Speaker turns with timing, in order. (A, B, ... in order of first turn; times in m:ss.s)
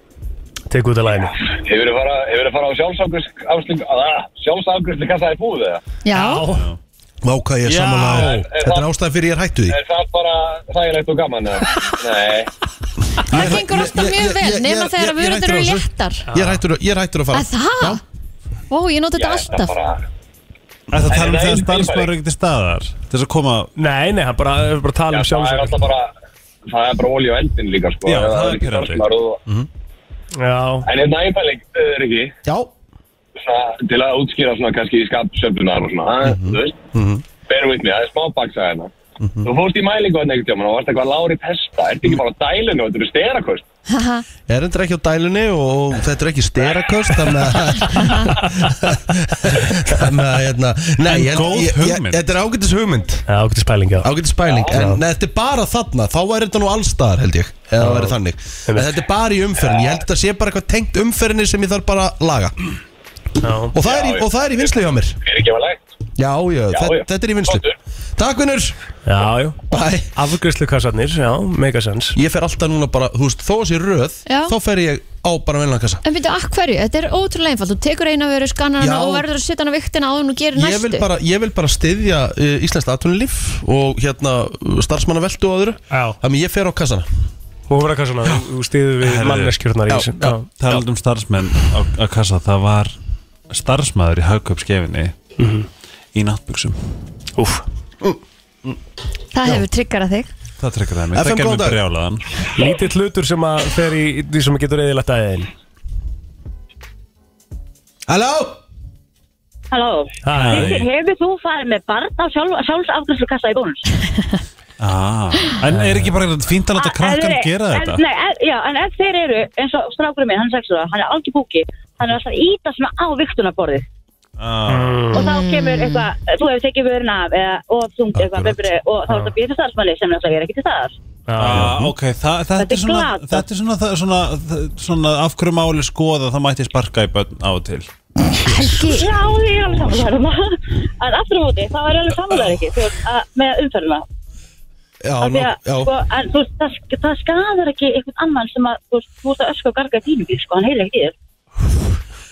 0:00.7-0:01.4 A
0:01.5-0:05.8 B
0:06.0-0:06.4 C
0:06.1-0:06.7 A
0:07.2-0:09.8 D
0:07.6-0:08.5 E
0:08.1-0:08.9 B
0:09.7-0:12.5 B
0:13.3-0:18.0 D
0:13.3-0:16.2 C
0:16.3-0:16.6 A
0:17.3-0:18.0 C
0:18.7-0:19.7 C
0:19.2-0:20.0 B
0:20.9-0:23.7 E
0:21.0-0:22.1 B
0:23.8-0:25.8 A
0:25.1-0:26.1 B
0:26.6-0:29.4 B
0:28.0-0:29.0 E
0:30.4-0:30.9 A
0:30.8-0:32.3 B
0:32.4-0:32.7 D
0:33.4-0:36.8 B
0:36.2-0:37.2 D
0:37.5-0:38.9 B
0:39.2-0:39.5 D
0:39.4-0:43.6 B
0:43.9-0:44.2 C
0:44.5-0:53.2 D
0:51.1-0:52.2 E
0:53.3-0:54.1 A
0:54.0-1:02.6 D
0:54.4-0:54.8 B
0:54.7-0:55.0 A
0:57.8-0:58.1 A
0:58.7-0:59.0 A
1:03.4-1:03.7 A
1:03.7-1:05.2 D
1:03.8-1:05.8 B
1:06.2-1:07.6 D
1:06.7-1:07.7 B
1:08.2-1:08.8 D
1:09.0-1:09.6 A
1:09.7-1:10.1 D
1:10.1-1:12.2 A
1:12.1-1:16.0 D
1:14.3-1:14.5 C
1:16.0-1:21.0 C
1:18.8-1:19.2 D
1:20.5-1:27.1 D
1:25.9-1:26.2 A
1:27.7-1:30.6 A
1:29.0-1:29.5 E
1:29.9-1:30.4 D
1:30.6-1:32.9 E
1:33.5-1:35.1 E
1:35.4-1:35.7 A
1:36.1-1:36.8 E
1:37.4-1:37.6 A
1:38.0-1:38.8 D
1:39.3-1:40.3 C
1:40.6-1:42.2 E
1:41.1-1:41.8 D
1:42.5-1:45.5 A
1:48.1-1:48.6 D
1:49.7-1:54.0 F
1:50.2-1:50.7 A
1:50.3-1:50.9 E
1:54.8-1:58.0 E
1:55.7-1:56.1 A
1:56.8-2:03.8 F
2:04.4-2:05.2 E
2:04.7-2:05.2 A
2:05.1-2:11.0 F
2:05.2-2:06.1 C
2:08.1-2:08.6 D
2:11.3-2:11.9 A
2:11.4-2:17.9 E
2:12.6-2:13.5 F
2:18.4-2:19.1 C
2:18.8-2:24.0 F
2:25.0-2:25.9 D
2:25.2-2:31.1 F